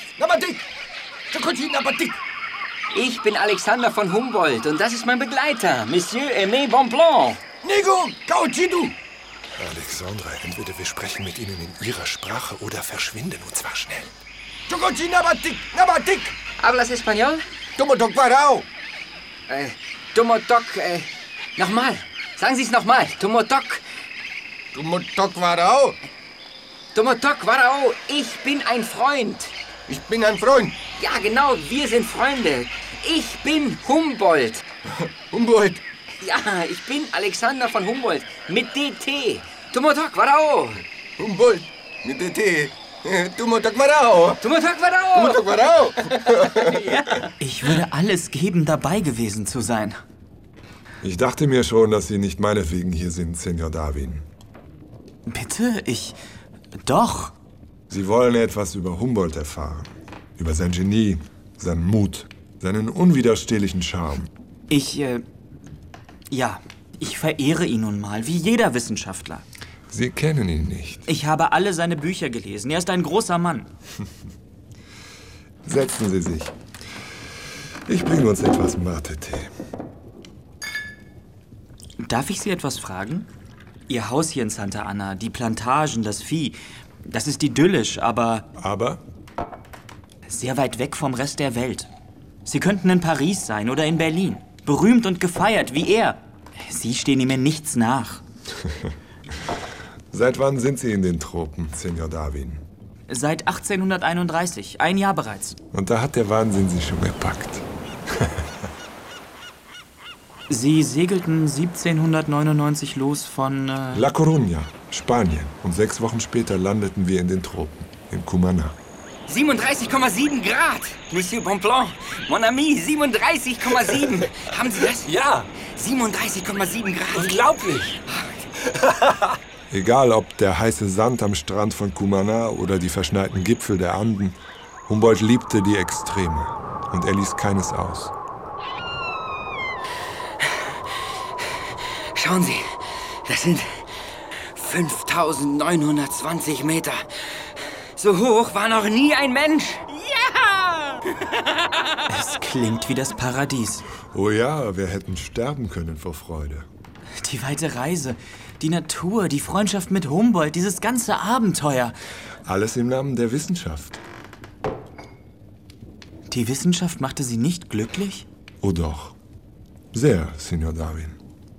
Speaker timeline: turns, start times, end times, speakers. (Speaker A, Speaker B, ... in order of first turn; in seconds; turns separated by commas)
Speaker A: 0.2-0.6, Speaker A: 1.3-2.2, Speaker B: 2.9-7.4, Speaker A: 7.6-9.0, Speaker C: 9.6-14.2, Speaker A: 14.7-16.4, Speaker B: 16.6-17.4, Speaker A: 17.8-18.7, Speaker B: 19.5-23.8, Speaker A: 24.7-26.0, Speaker B: 26.9-29.5, Speaker A: 29.9-30.8, Speaker B: 31.0-34.6, Speaker A: 35.0-35.8, Speaker B: 36.2-40.9, Speaker A: 41.2-44.4, Speaker B: 44.4-45.5, Speaker A: 45.1-46.8, Speaker B: 46.5-47.2, Speaker D: 47.2-50.0, Speaker C: 51.0-54.2, Speaker D: 55.3-56.2, Speaker D: 56.8-57.4, Speaker C: 57.9-64.3, Speaker D: 64.7-65.2, Speaker D: 66.3-69.5, Speaker C: 69.9-71.1, Speaker D: 71.1-73.7, Speaker C: 75.6-76.5, Speaker C: 77.9-79.5, Speaker D: 82.0-83.3, Speaker D: 83.9-88.5, Speaker C: 88.6-89.0, Speaker D: 90.3-91.9, Speaker D: 92.5-98.2, Speaker C: 100.1-102.6, Speaker D: 103.1-105.6, Speaker C: 105.7-107.7, Speaker D: 110.5-114.1, Speaker C: 113.9-118.8, Speaker B: 119.3-128.9, Speaker C: 125.1-125.5, Speaker C: 127.3-127.8, Speaker C: 129.7-138.1, Speaker B: 142.1-143.8, Speaker B: 144.5-151.5, Speaker D: 152.1-153.9, Speaker C: 154.1-156.7, Speaker D: 157.2-161.9, Speaker C: 162.4-164.0, Speaker D: 166.3-168.3, Speaker C: 168.6-169.2, Speaker C: 169.9-171.2